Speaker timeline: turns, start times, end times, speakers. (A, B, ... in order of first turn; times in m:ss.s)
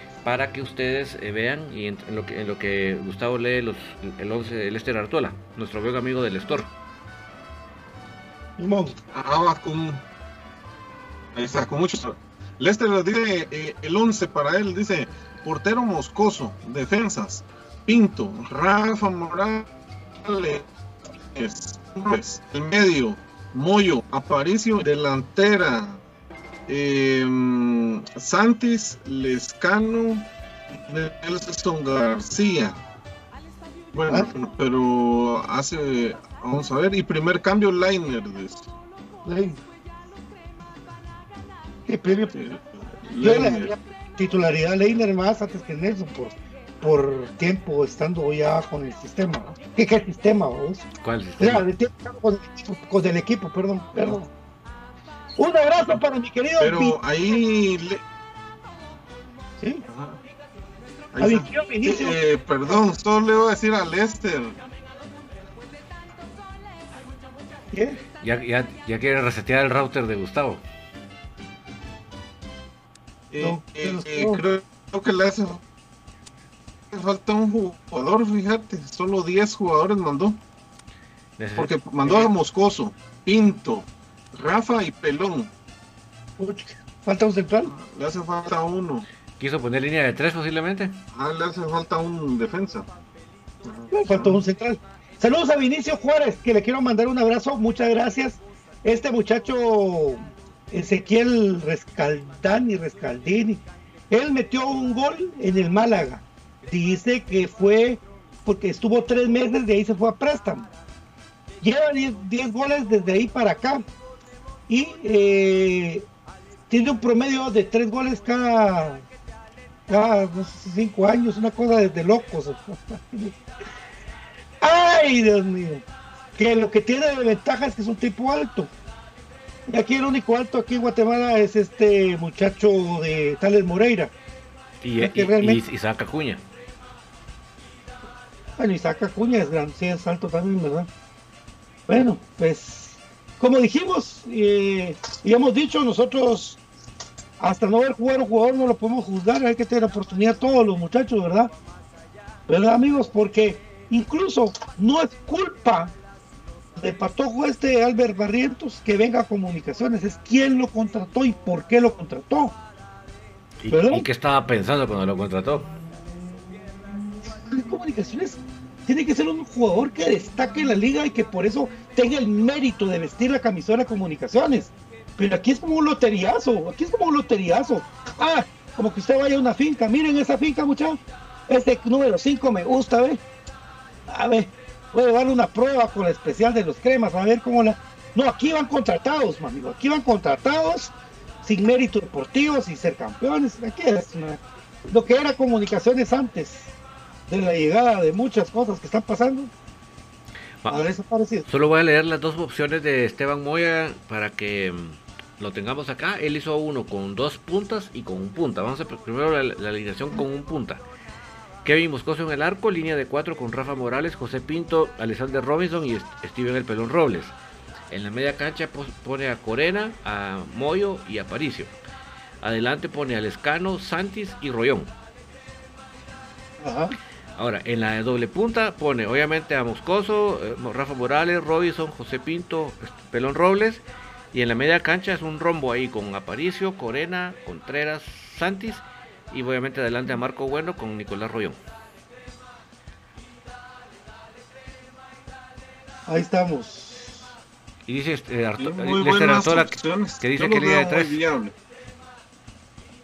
0:00.2-0:06.7 A
0:08.6-0:09.0 B
0:09.1-0:10.0 C
0:11.4-0:19.7 C
0:20.2-0:20.7 C
0:21.4-0:26.0 C
0:26.7-0:30.3 C
0:30.9-0:32.8 C
0:33.9-0:38.7 C
0:39.2-0:39.6 B
0:41.9-0:42.3 B
0:42.3-0:43.7 C
0:43.2-0:50.9 B
0:51.0-0:51.7 A
0:51.4-0:54.3 B
0:55.4-0:57.0 B
0:56.6-0:58.0 C
0:59.9-1:00.2 C
1:01.1-1:04.6 C
1:01.2-1:02.2 B
1:07.7-1:08.0 B
1:08.2-1:10.6 A
1:13.3-1:15.6 C
1:13.4-1:14.4 B
1:16.9-1:20.4 C
1:21.4-1:22.3 A
1:21.6-1:25.5 C
1:26.4-1:27.7 B
1:27.7-1:29.1 C
1:29.4-1:31.0 A
1:31.2-1:32.9 C
1:33.6-1:34.4 C
1:33.9-1:50.7 B
1:51.6-1:53.8 B
1:54.7-1:56.1 B
1:56.7-1:59.0 B
1:59.9-2:03.4 B
2:04.6-2:05.8 B
2:06.4-2:08.7 B
2:09.7-2:14.1 B
2:14.8-2:16.4 A
2:15.0-2:15.6 B
2:18.6-2:20.9 B
2:21.9-2:26.6 B
2:27.4-2:31.5 B
2:32.5-2:36.0 B
2:36.8-2:42.6 B
2:43.6-2:45.7 A
2:43.7-2:44.1 B
2:47.5-3:03.2 B
3:04.1-3:16.7 B
3:17.3-3:19.5 B
3:20.7-3:21.5 B
3:21.5-3:30.8 A
3:31.6-3:37.4 A
3:37.9-3:41.7 A
3:42.4-3:44.9 A
3:46.6-3:47.0 B
3:47.4-4:01.6 A
4:06.1-4:07.2 B
4:07.9-4:11.2 A
4:08.6-4:11.6 C